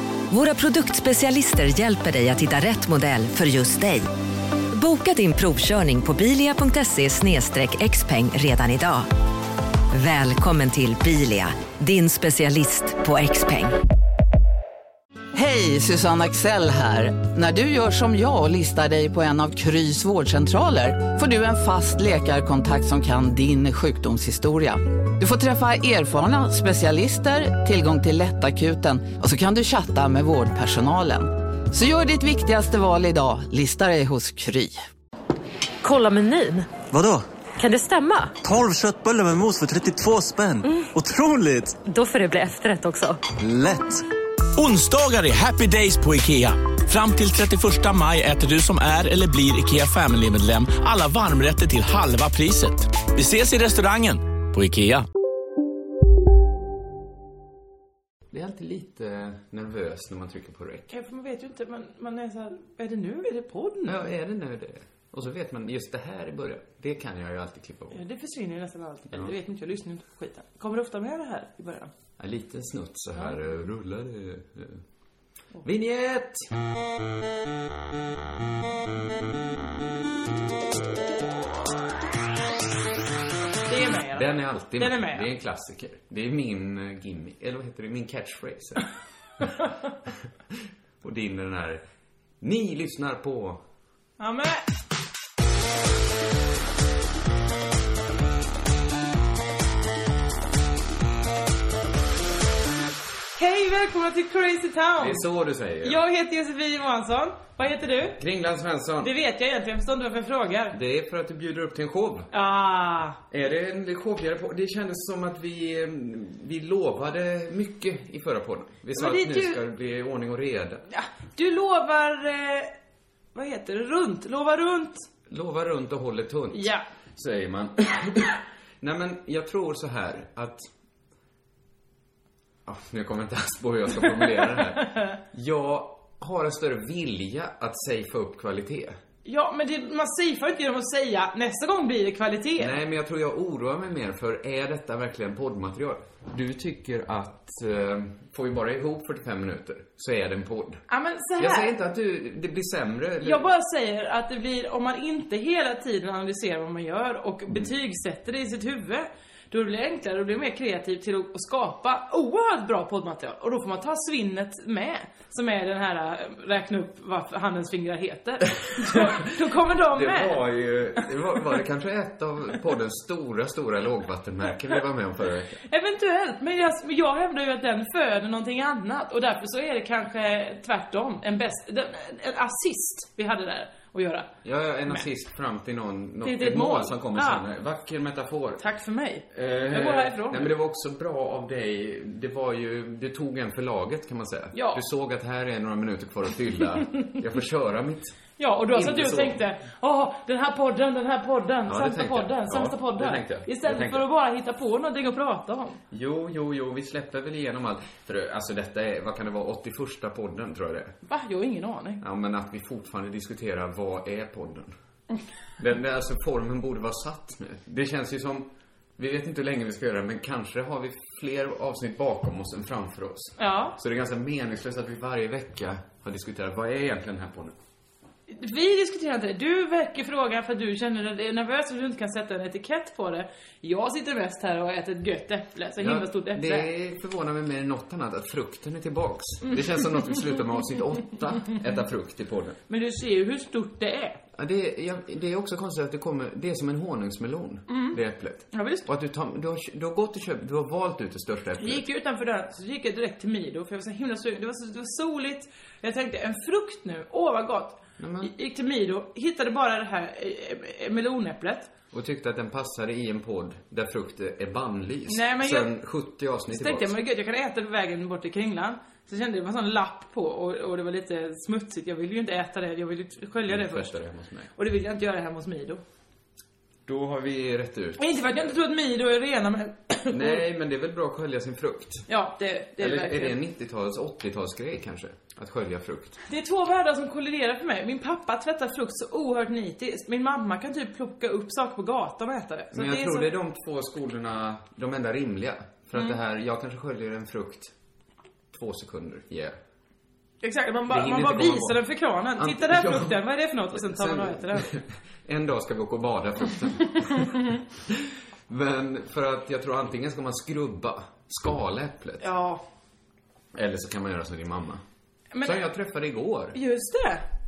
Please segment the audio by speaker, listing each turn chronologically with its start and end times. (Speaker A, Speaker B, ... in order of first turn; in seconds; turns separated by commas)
Speaker A: 0.3-4.1, Speaker A: 4.7-9.1, Speaker A: 9.9-13.8, Speaker B: 15.3-34.8, Speaker C: 35.8-36.7, Speaker D: 36.9-37.2, Speaker C: 37.6-38.4, Speaker D: 38.4-41.8, Speaker C: 41.8-43.2, Speaker D: 43.3-44.0, Speaker E: 44.6-55.1, Speaker F: 58.3-60.9, Speaker G: 60.9-64.0, Speaker F: 63.9-68.0, Speaker G: 67.9-71.9, Speaker F: 72.2-74.8, Speaker F: 75.6-76.5, Speaker G: 83.7-85.3, Speaker F: 84.1-88.9, Speaker F: 91.0-91.8, Speaker F: 92.4-93.6, Speaker G: 94.2-94.7, Speaker G: 103.4-105.2, Speaker F: 105.0-106.0, Speaker G: 105.8-108.2, Speaker F: 108.2-109.1, Speaker G: 109.0-110.8, Speaker F: 110.7-112.3, Speaker G: 112.3-113.2, Speaker F: 113.3-120.9, Speaker G: 118.9-119.6, Speaker G: 120.9-122.7, Speaker G: 123.3-125.1, Speaker F: 125.3-130.6, Speaker G: 126.5-126.8, Speaker F: 132.7-139.0, Speaker G: 134.4-135.2, Speaker G: 139.2-142.8, Speaker F: 142.6-150.8, Speaker G: 150.9-151.7, Speaker F: 151.4-153.5, Speaker G: 153.2-170.4, Speaker F: 168.9-169.2, Speaker F: 169.9-175.6, Speaker G: 175.7-184.3, Speaker F: 184.4-188.6, Speaker G: 186.2-187.4, Speaker G: 188.6-190.5, Speaker F: 189.3-198.2, Speaker G: 194.5-194.8, Speaker G: 198.4-205.8, Speaker F: 198.7-199.4, Speaker F: 201.7-204.1, Speaker F: 205.9-210.9, Speaker G: 211.1-212.0, Speaker F: 212.0-214.7, Speaker F: 215.6-227.6, Speaker G: 223.4-223.8, Speaker G: 228.3-236.7, Speaker F: 235.8-242.6, Speaker G: 242.7-244.2, Speaker F: 244.4-251.8, Speaker G: 247.7-248.0, Speaker G: 248.5-248.9, Speaker G: 251.6-261.7, Speaker F: 258.0-258.3, Speaker F: 261.9-266.9, Speaker G: 265.1-265.7, Speaker G: 266.5-273.9, Speaker F: 273.5-274.5, Speaker G: 274.6-275.8, Speaker F: 276.9-278.2, Speaker G: 278.0-280.4, Speaker F: 280.1-282.1, Speaker G: 282.1-283.4, Speaker F: 282.8-286.2, Speaker G: 286.2-293.3, Speaker F: 292.7-297.7, Speaker F: 298.5-299.6, Speaker G: 300.4-304.7, Speaker F: 300.9-312.3, Speaker G: 312.2-312.6, Speaker F: 313.5-314.8, Speaker G: 315.3-315.6, Speaker F: 315.4-316.6, Speaker G: 316.5-317.2